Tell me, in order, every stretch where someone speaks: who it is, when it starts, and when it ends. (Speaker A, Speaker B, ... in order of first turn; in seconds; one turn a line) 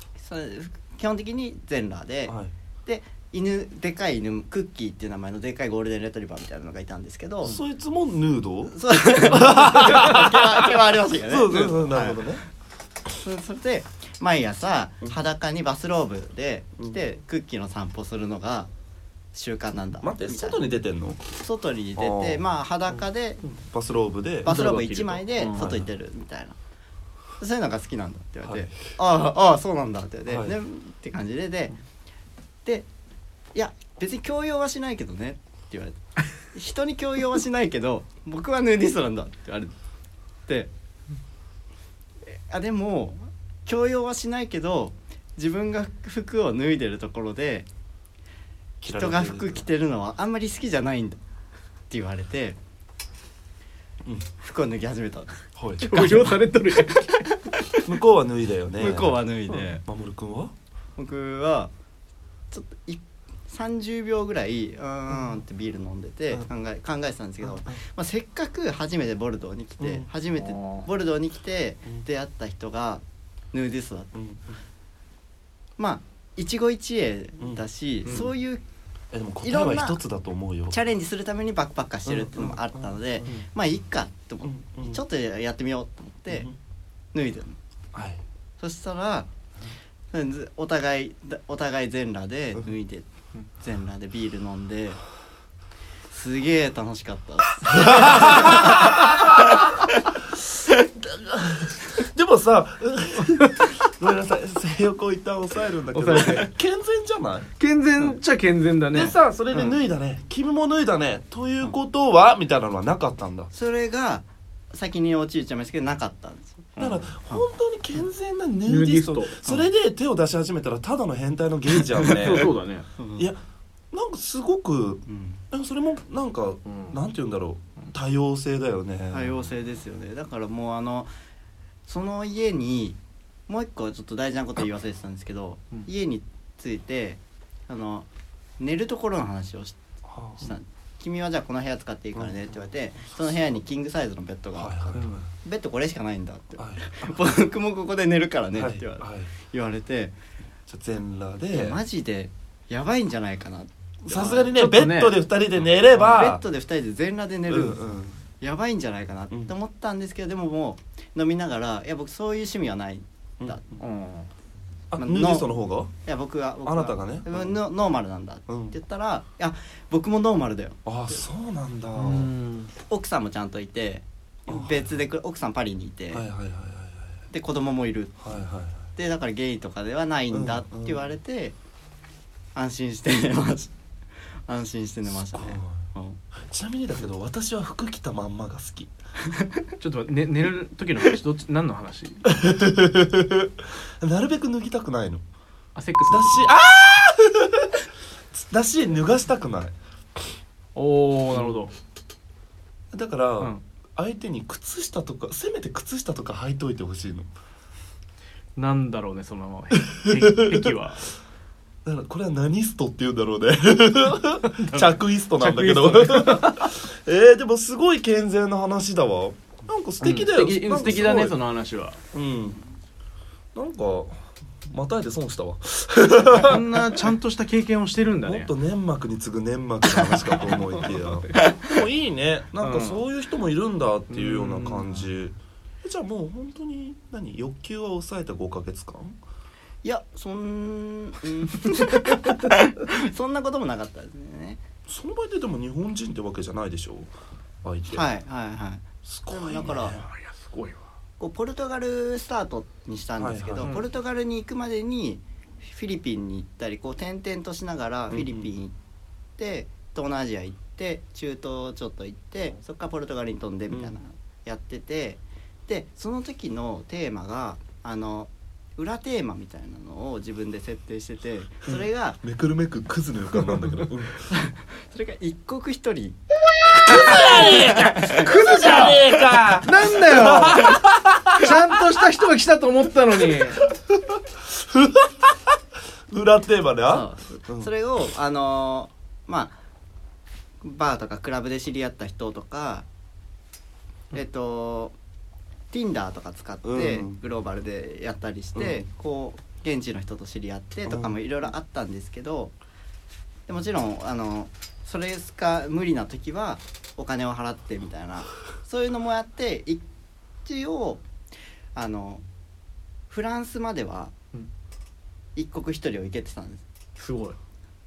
Speaker A: 0.2-7.6
Speaker B: 2.3-2.5
Speaker B: 7.4-10.7
Speaker A: 8.7-12.4
Speaker B: 11.3-12.4
Speaker A: 13.1-18.7
Speaker A: 19.3-20.6
Speaker B: 20.0-21.2
Speaker A: 21.3-23.4
Speaker B: 22.0-22.4
Speaker B: 23.4-24.6
Speaker A: 24.4-26.6
Speaker C: 24.5-25.7
Speaker B: 25.5-25.9
Speaker A: 27.4-31.8
Speaker B: 28.4-28.8
Speaker B: 30.3-30.6
Speaker A: 33.5-39.7
Speaker A: 42.3-47.7
Speaker B: 48.8-49.7
Speaker A: 48.9-51.2
Speaker A: 51.9-52.6
Speaker A: 54.4-57.8
Speaker B: 55.6-56.3
Speaker C: 55.8-57.2
Speaker B: 57.8-60.5
Speaker A: 58.8-59.8
Speaker A: 61.0-61.7
Speaker A: 62.5-74.1
Speaker B: 67.5-67.8
Speaker B: 69.8-70.1
Speaker C: 70.3-70.9
Speaker B: 74.1-74.6
Speaker A: 75.8-78.6
Speaker B: 77.4-78.3
Speaker B: 79.1-80.8
Speaker A: 79.4-80.0
Speaker A: 80.7-86.5
Speaker B: 82.1-83.5
Speaker B: 84.4-85.0
Speaker B: 86.3-86.5
Speaker A: 87.1-87.6
Speaker B: 87.9-88.2
Speaker A: 88.6-89.3
Speaker A: 90.1-95.0
Speaker A: 96.1-99.8
Speaker B: 97.7-99.6
Speaker B: 100.3-107.5
Speaker C: 105.9-106.5
Speaker C: 107.6-109.2
Speaker B: 108.9-113.5
Speaker A: 113.5-116.7
Speaker C: 116.8-117.0
Speaker B: 116.8-122.5
Speaker C: 118.7-119.4
Speaker C: 122.1-122.9
Speaker A: 123.0-123.3
Speaker B: 123.9-129.5
Speaker A: 125.1-125.4
Speaker C: 126.7-127.0
Speaker A: 129.1-131.1
Speaker A: 131.9-138.1
Speaker A: 138.6-139.8
Speaker B: 140.1-140.5
Speaker A: 140.4-150.2
Speaker B: 142.2-143.4
Speaker B: 144.6-145.3
Speaker C: 145.0-145.2
Speaker B: 146.6-147.1
Speaker B: 148.5-149.3
Speaker B: 150.7-151.8
Speaker A: 151.5-154.5
Speaker B: 154.1-156.4
Speaker C: 154.4-155.2
Speaker A: 155.9-163.6
Speaker B: 157.5-158.2
Speaker C: 163.8-164.3
Speaker B: 164.9-165.9
Speaker A: 165.0-165.5
Speaker A: 166.0-171.2
Speaker B: 166.7-167.6
Speaker B: 168.5-168.8
Speaker B: 170.8-172.3
Speaker C: 172.0-172.7
Speaker A: 172.9-176.2
Speaker B: 174.5-174.9
Speaker B: 176.1-177.2
Speaker A: 177.3-178.4
Speaker B: 178.2-178.9
Speaker A: 179.0-181.6
Speaker B: 180.3-181.1
Speaker A: 182.6-183.7
Speaker A: 184.5-186.2
Speaker B: 185.1-185.9
Speaker B: 186.4-188.9
Speaker A: 189.3-189.6
Speaker C: 189.8-192.2
Speaker B: 192.2-195.2
Speaker C: 195.8-196.5
Speaker B: 196.1-197.8
Speaker B: 198.3-199.8
Speaker C: 200.8-201.7
Speaker B: 201.3-201.6
Speaker B: 202.9-207.3
Speaker C: 208.6-211.1
Speaker B: 209.9-210.8
Speaker B: 211.8-221.4
Speaker C: 214.5-216.7
Speaker C: 220.0-222.0
Speaker B: 222.1-222.6
Speaker B: 223.6-226.8
Speaker C: 226.3-228.5
Speaker B: 228.2-239.2
Speaker C: 230.3-231.4
Speaker C: 232.6-233.0
Speaker C: 234.1-235.1
Speaker A: 239.8-244.6
Speaker B: 244.9-247.1
Speaker B: 247.6-248.1
Speaker A: 247.9-250.0
Speaker B: 249.0-250.1
Speaker C: 249.9-250.8
Speaker A: 251.2-258.8
Speaker B: 253.2-253.7
Speaker B: 258.1-258.5
Speaker A: 259.4-272.2
Speaker B: 263.7-264.0
Speaker B: 272.2-274.2
Speaker A: 274.3-276.2
Speaker B: 276.7-281.8
Speaker A: 276.7-278.3
Speaker C: 277.0-283.6
Speaker B: 283.4-285.6
Speaker B: 286.1-287.7
Speaker A: 286.9-289.6
Speaker A: 290.6-292.9
Speaker A: 294.1-295.0
Speaker A: 295.7-302.6
Speaker B: 296.6-297.2
Speaker B: 298.6-298.9
Speaker B: 300.9-301.2
Speaker A: 303.5-309.8
Speaker A: 310.4-311.0
Speaker A: 311.8-312.2
Speaker A: 313.1-314.1
Speaker A: 315.4-316.6
Speaker C: 317.0-317.4